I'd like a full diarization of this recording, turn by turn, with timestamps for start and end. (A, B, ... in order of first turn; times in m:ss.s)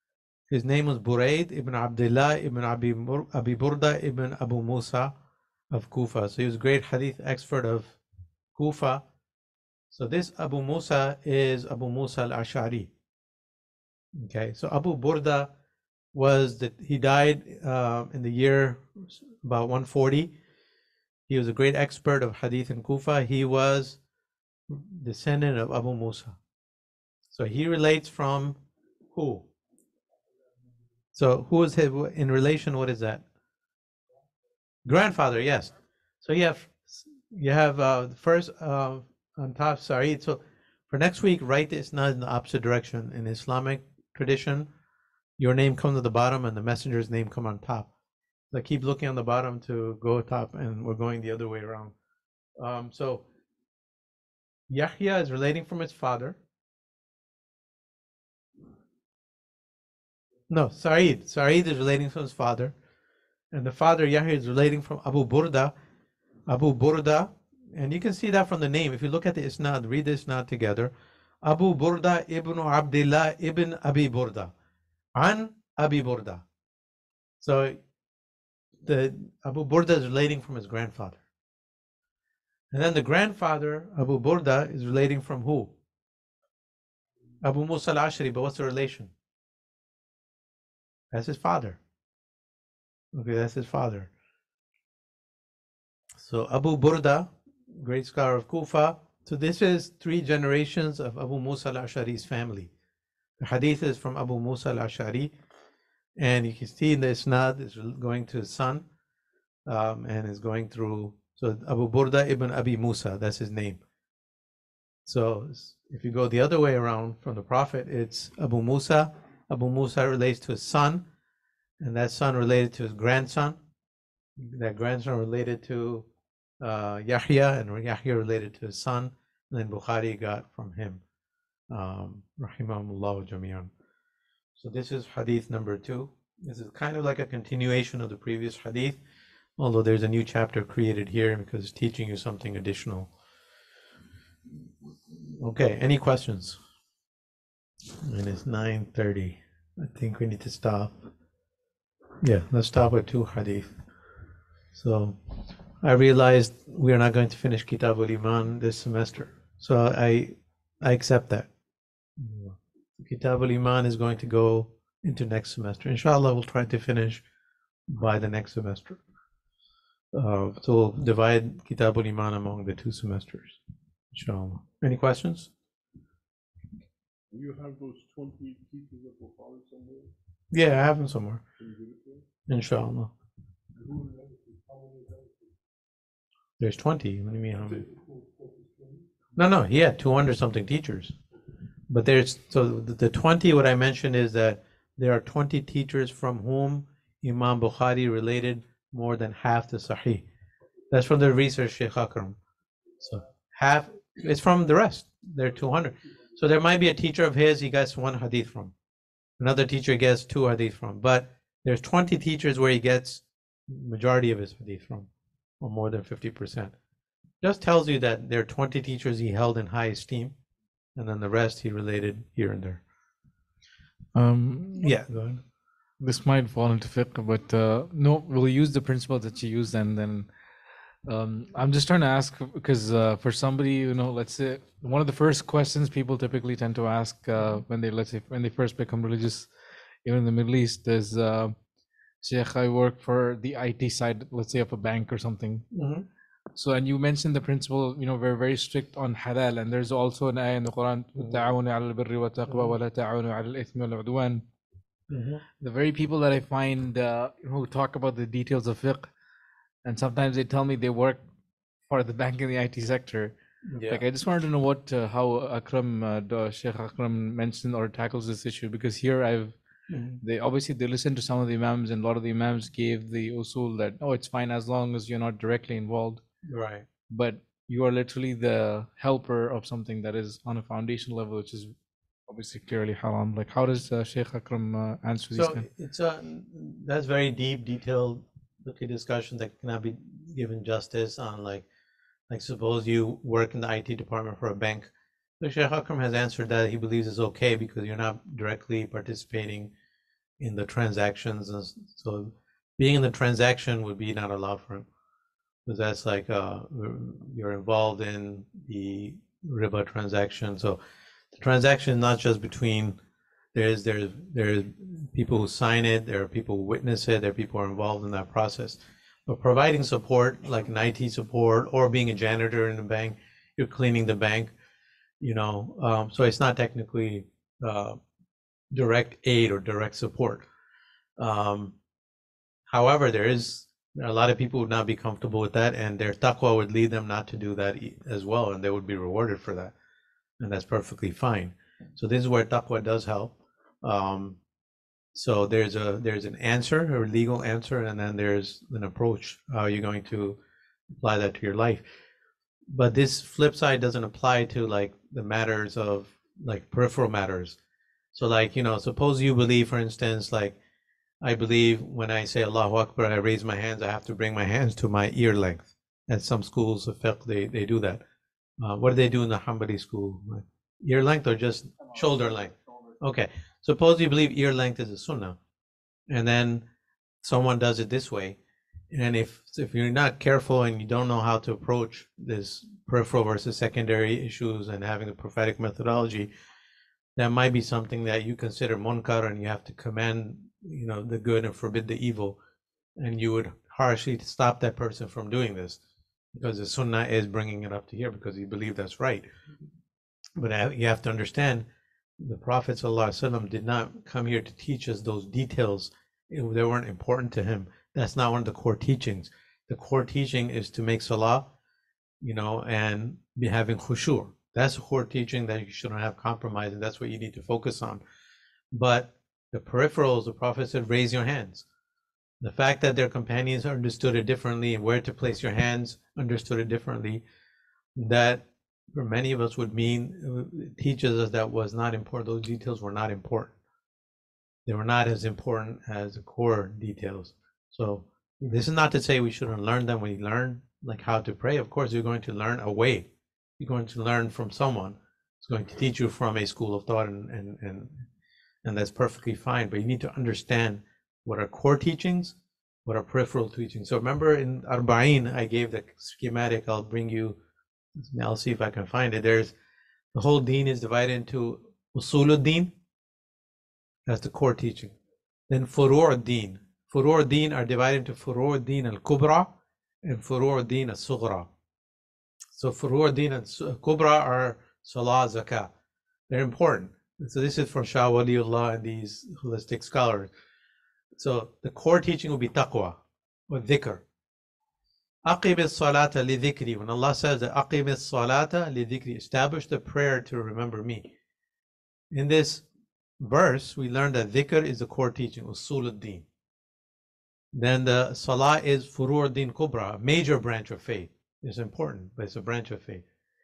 0:00.5-0:05.1 A
0:05.7-0:08.0 A
0:08.6-0:09.0 A
0:09.9-0:12.9 A
0:14.2-0:15.5 A
0:16.1-0:20.3 A
0:21.3-0:24.0 A
0:24.7-0:26.4 A
0:27.3-0:28.6 A
0:29.1-0:29.4 A
0:31.1-0:33.2 A
0:34.8-0:44.7 A
0:45.4-0:47.9 A
0:48.5-0:51.9 A
0:52.6-0:53.2 A
0:54.7-0:56.4 A
1:00.5-1:02.7 A
1:03.5-1:05.7 A
1:06.5-1:10.9 A
1:11.4-1:14.5 A
1:15.2-1:16.4 A
1:17.4-1:17.8 A
1:18.8-1:21.2 A
1:22.7-1:25.7 A
1:27.4-1:29.1 A
1:31.1-1:31.8 A
1:33.1-1:34.1 A
1:36.2-1:42.7 A
1:43.4-1:45.3 A
1:46.2-1:48.9 A
1:49.7-1:53.8 A
1:55.0-2:01.0 A
2:01.8-2:03.6 A
2:04.4-2:06.0 A
2:06.6-2:11.0 A
2:11.7-2:13.7 A
2:14.6-2:19.0 A
2:19.6-2:23.1 A
2:25.1-2:26.6 A
2:28.0-2:30.9 A
2:32.2-2:33.7 A
2:34.7-2:35.2 A
2:35.8-2:41.5 A
2:42.2-2:47.2 A
2:47.9-2:49.0 A
2:50.1-2:53.6 A
2:54.1-2:55.5 A
2:57.3-3:00.1 B
3:00.5-3:01.4 A
3:01.6-3:02.3 B
3:02.5-3:03.1 A
3:03.8-3:05.6 B
3:06.6-3:07.9 A
3:07.5-3:09.3 B
3:09.4-3:11.1 A
3:11.9-3:20.2 A
3:20.9-3:22.4 A
3:23.0-3:28.7 A
3:25.5-3:26.4 B
3:29.4-3:35.1 A
3:35.6-3:36.7 A
3:37.4-3:40.4 A
3:41.0-3:42.8 A
3:44.1-3:44.9 C
3:44.8-3:45.4 A
3:46.0-3:50.3 C
3:51.0-3:59.5 C
4:00.0-4:01.6 C
4:02.2-4:05.7 C
4:05.7-4:06.0 A
4:06.6-4:14.4 C
4:15.1-4:15.4 A
4:15.6-4:19.1 C
4:19.8-4:21.2 C
4:21.9-4:23.3 C
4:23.7-4:24.0 A
4:23.9-4:29.6 C
4:29.9-4:30.2 A
4:30.2-4:36.2 C
4:36.4-4:36.9 A
4:37.1-4:41.7 C
4:42.3-4:45.6 C
4:45.3-4:51.7 A
4:52.3-4:59.7 A
5:00.4-5:04.9 A
5:05.7-5:10.8 A
5:11.3-5:13.0 A
5:13.6-5:24.5 A
5:25.2-5:28.0 A
5:28.7-5:30.4 A
5:31.2-5:31.7 A
5:32.7-5:39.7 A
5:40.4-5:44.4 A
5:45.1-5:50.4 A
5:51.0-5:51.8 A
5:52.7-5:57.6 A
5:58.1-6:00.6 A
6:01.2-6:08.0 A
6:08.6-6:15.4 A
6:16.1-6:16.6 A
6:17.2-6:18.4 A
6:18.9-6:26.3 A
6:27.2-6:32.4 A
6:33.0-6:35.8 A
6:36.3-6:39.3 A
6:40.4-6:41.6 A
6:42.2-6:51.5 A
6:52.2-6:58.0 A
6:58.7-7:01.6 A
7:02.4-7:07.2 A
7:08.0-7:13.5 A
7:14.6-7:23.1 A
7:23.6-7:28.0 A
7:28.6-7:32.4 A
7:32.9-7:37.4 A
7:38.0-7:39.5 A
7:40.1-7:42.7 A
7:44.1-7:44.9 A
7:45.5-7:49.5 A
7:50.0-7:51.5 A
7:52.6-7:55.7 A
7:56.3-8:00.3 A
8:01.2-8:03.0 A
8:03.5-8:04.0 A
8:05.2-8:11.1 A
8:12.1-8:12.6 A
8:13.2-8:16.2 A
8:17.5-8:23.0 A